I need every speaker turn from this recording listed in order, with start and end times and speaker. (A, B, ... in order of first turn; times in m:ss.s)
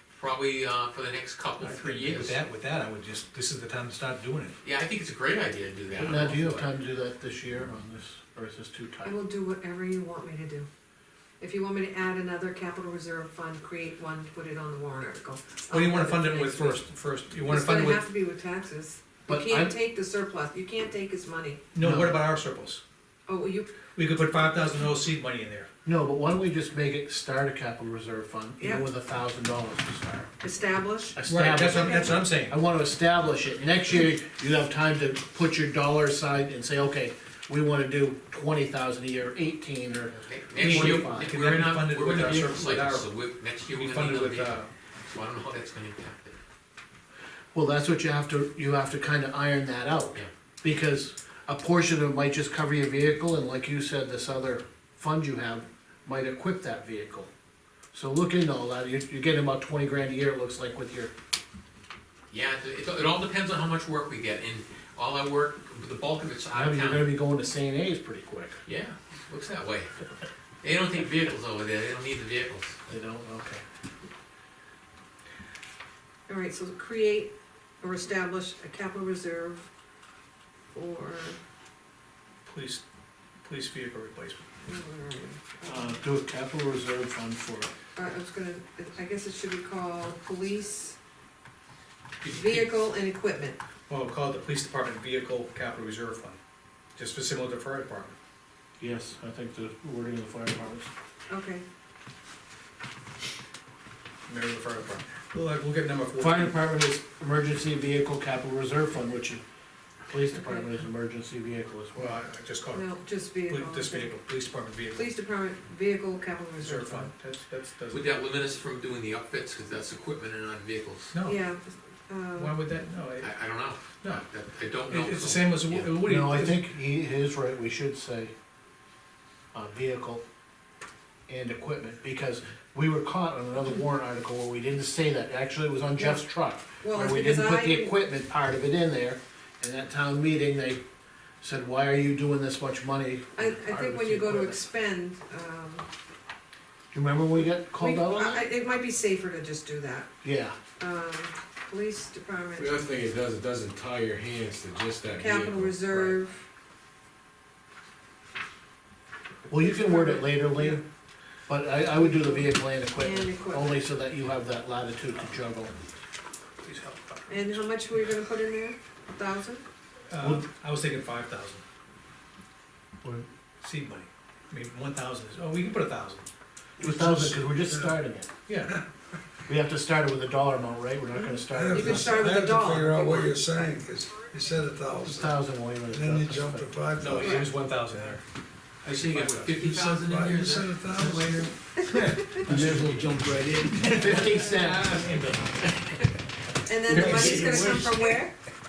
0:00.1-0:02.4 A
0:01.6-0:04.6 B
0:04.6-0:06.7 A
0:05.9-0:09.2 C
0:09.0-0:10.7 D
0:11.4-0:16.8 D
0:15.7-0:18.1 B
0:17.4-0:21.6 D
0:19.3-0:19.7 C
0:21.7-0:22.8 B
0:21.8-0:22.2 C
0:23.3-0:23.7 D
0:24.0-0:25.7 B
0:25.8-0:30.3 C
0:28.6-0:28.8 D
0:30.4-0:32.2 D
0:31.2-0:41.3 C
0:31.2-0:32.6 B
0:40.2-0:46.4 A
0:40.6-0:43.1 B
0:43.7-0:44.7 B
0:47.5-0:57.3 C
0:57.9-1:01.1 C
1:02.3-1:07.1 A
1:06.5-1:08.6 C
1:08.7-1:09.9 A
1:10.6-1:12.8 A
1:12.9-1:13.6 C
1:16.3-1:19.6 D
1:20.7-1:21.4 D
1:22.4-1:22.8 B
1:23.4-1:24.4 B
1:24.6-1:26.0 D
1:25.6-1:27.7 C
1:28.0-1:31.0 D
1:32.2-1:32.7 A
1:32.2-1:33.6 D
1:33.9-1:36.4 B
1:37.0-1:38.2 B
1:38.8-1:40.9 C
1:41.3-1:41.6 D
1:44.3-1:46.6 B
1:46.2-1:49.4 C
1:50.1-1:52.2 C
1:52.0-1:52.9 B
1:52.7-1:54.1 D
1:53.5-1:55.1 B
1:54.9-1:57.1 D
1:56.6-1:58.2 B
1:57.9-2:01.1 A
2:01.1-2:01.4 B
2:01.2-2:02.6 D
2:02.4-2:04.2 B
2:03.2-2:05.9 A
2:04.9-2:06.7 B
2:06.0-2:08.3 C
2:09.5-2:10.2 C
2:11.3-2:20.8 C
2:16.0-2:16.3 D
2:16.8-2:18.0 D
2:21.4-2:24.6 C
2:23.4-2:25.8 D
2:26.9-2:28.5 C
2:27.8-2:30.1 D
2:30.2-2:30.6 C
2:30.8-2:32.8 D
2:32.6-2:36.2 E
2:35.2-2:36.4 D
2:39.5-2:40.8 C
2:39.6-2:40.8 D
2:41.5-2:45.7 C
2:41.9-2:43.8 D
2:46.6-2:48.1 B
2:47.3-2:49.6 D
2:50.1-2:51.6 B
2:53.0-2:53.3 C
2:53.6-2:56.3 B
2:56.8-2:58.0 F
2:56.8-2:58.3 C
2:58.5-2:58.8 B
2:59.5-3:02.3 C
3:01.4-3:08.2 F
3:01.7-3:03.4 D
3:05.0-3:06.7 C
3:07.0-3:08.2 B
3:08.8-3:09.8 B
3:08.8-3:11.5 A
3:09.6-3:11.5 F
3:11.9-3:15.3 B
3:12.2-3:12.4 D
3:12.5-3:14.8 E
3:13.9-3:15.7 C
3:16.7-3:18.3 D
3:16.9-3:17.8 B
3:16.9-3:17.9 E
3:17.0-3:17.4 F